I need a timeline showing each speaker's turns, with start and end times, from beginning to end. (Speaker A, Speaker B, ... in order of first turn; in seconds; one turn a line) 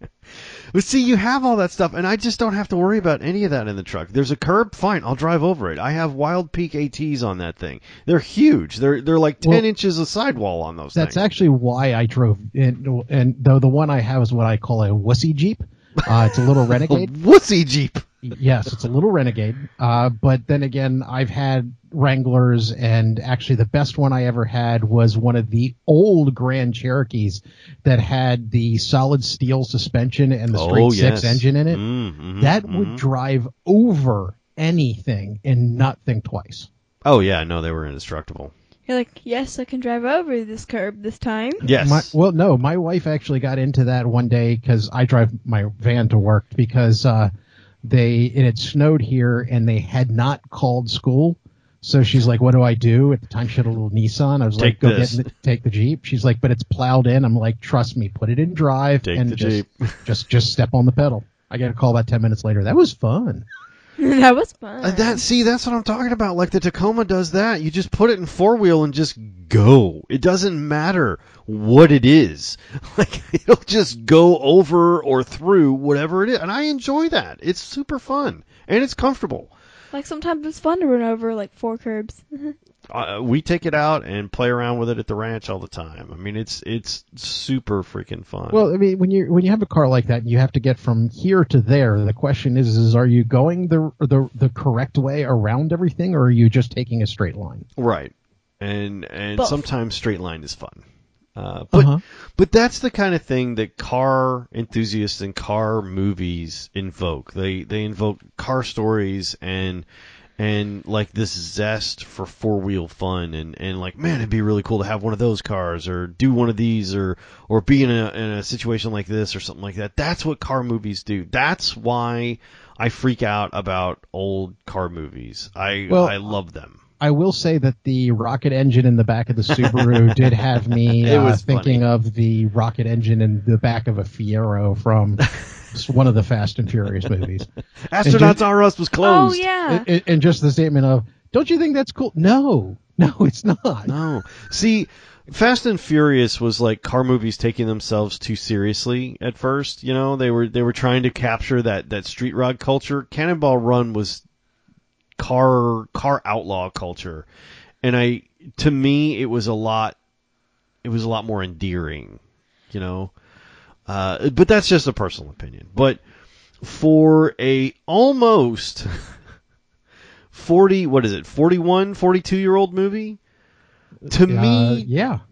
Speaker A: 0.7-11.2
Speaker B: 10.9-17.1
Speaker A: 16.2-18.1
Speaker B: 18.2-31.8
Speaker A: 30.5-33.0
Speaker B: 32.4-36.7
Speaker A: 37.0-38.5
Speaker C: 38.9-41.6
Speaker A: 41.6-42.1
Speaker B: 41.7-47.3
Speaker B: 47.8-63.5
Speaker A: 54.6-55.3
Speaker A: 59.0-60.0
Speaker C: 64.0-65.2
Speaker A: 64.8-79.5
Speaker C: 79.9-82.5
Speaker A: 82.9-88.6
Speaker B: 88.5-97.7
Speaker A: 97.8-100.8
Speaker A: 101.3-109.8
Speaker B: 101.7-102.0
Speaker A: 110.4-126.8
Speaker B: 125.9-126.2
Speaker B: 127.0-137.5
Speaker A: 129.6-131.8
Speaker A: 137.9-139.5
Speaker B: 138.0-138.4
Speaker C: 139.0-139.9
Speaker B: 139.7-143.9
Speaker A: 143.9-154.2
Speaker A: 155.2-157.2
Speaker A: 157.8-160.0
Speaker A: 160.8-163.1
Speaker A: 163.9-166.0
Speaker A: 166.6-169.1
Speaker A: 170.3-173.2
Speaker A: 174.1-174.9
Speaker B: 174.3-175.2